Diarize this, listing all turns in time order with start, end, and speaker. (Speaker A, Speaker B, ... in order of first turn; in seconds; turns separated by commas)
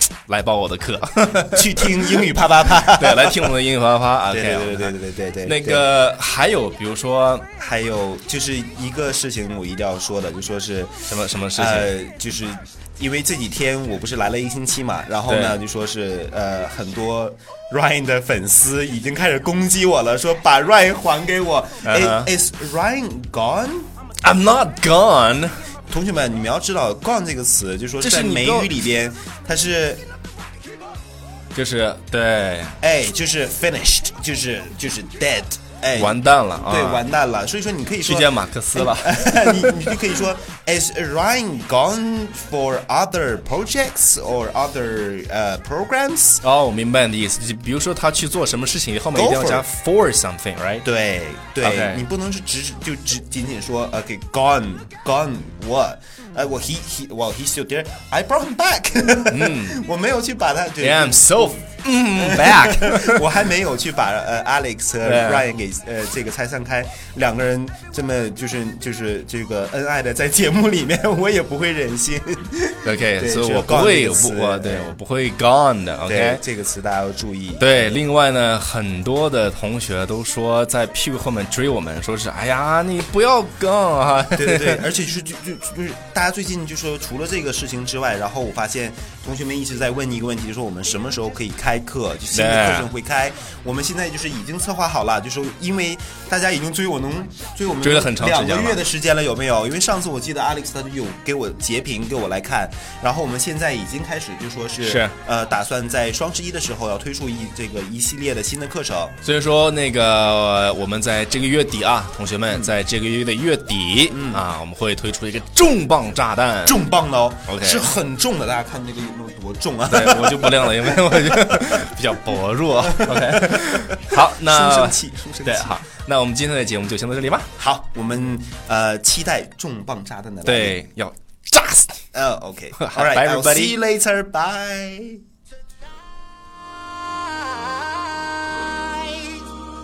Speaker A: 0.3-7.5, Speaker B: 1.5-3.6, Speaker B: 4.3-5.9, Speaker B: 7.6-23.9, Speaker A: 11.1-11.9, Speaker A: 15.3-15.6, Speaker A: 21.8-22.3, Speaker A: 24.2-25.6, Speaker B: 25.9-30.1, Speaker A: 28.0-28.7, Speaker A: 31.5-32.8, Speaker B: 32.8-46.4, Speaker A: 35.9-37.0, Speaker A: 38.0-39.9, Speaker A: 46.4-50.9, Speaker B: 49.1-49.7, Speaker B: 50.8-61.6, Speaker A: 51.6-52.1, Speaker A: 59.3-59.8, Speaker A: 60.8-63.2, Speaker B: 62.2-75.0, Speaker A: 65.0-65.5, Speaker A: 72.8-76.4, Speaker B: 76.1-78.0, Speaker A: 77.6-84.8, Speaker B: 84.4-109.2, Speaker A: 92.3-92.9, Speaker A: 97.8-98.8, Speaker A: 104.8-105.2, Speaker A: 109.2-116.8, Speaker B: 112.5-112.7, Speaker B: 114.1-114.4, Speaker B: 116.7-121.8, Speaker A: 117.5-117.9, Speaker A: 119.9-127.5, Speaker B: 122.8-125.8, Speaker B: 127.6-130.8, Speaker A: 130.4-132.0, Speaker B: 132.1-135.2, Speaker A: 132.8-133.8